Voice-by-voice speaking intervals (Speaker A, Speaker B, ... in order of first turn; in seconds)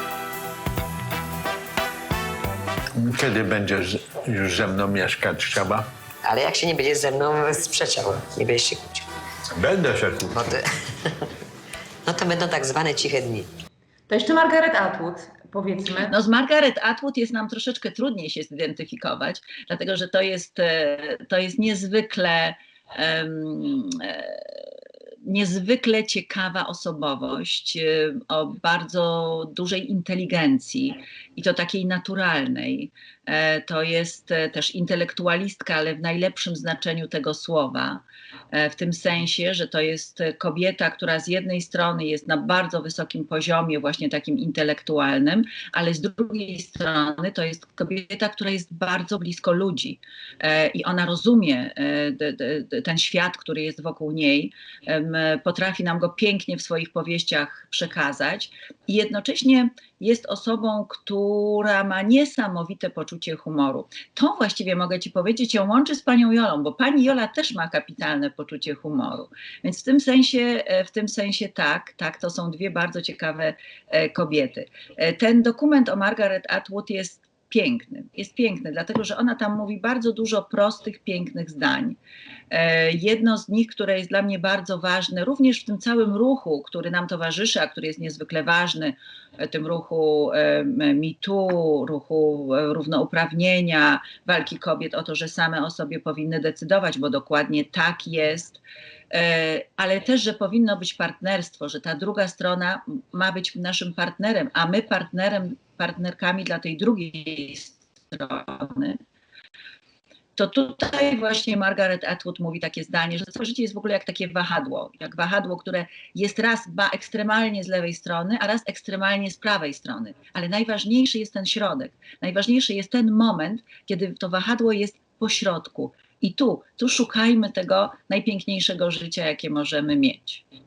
Speaker A: 3.0-5.9, 9.5-10.5
Speaker B: 6.2-9.1, 10.3-11.3, 12.1-13.5
Speaker C: 14.1-16.2
Speaker D: 16.0-24.7, 25.2-82.0, 82.5-109.0, 110.4-130.4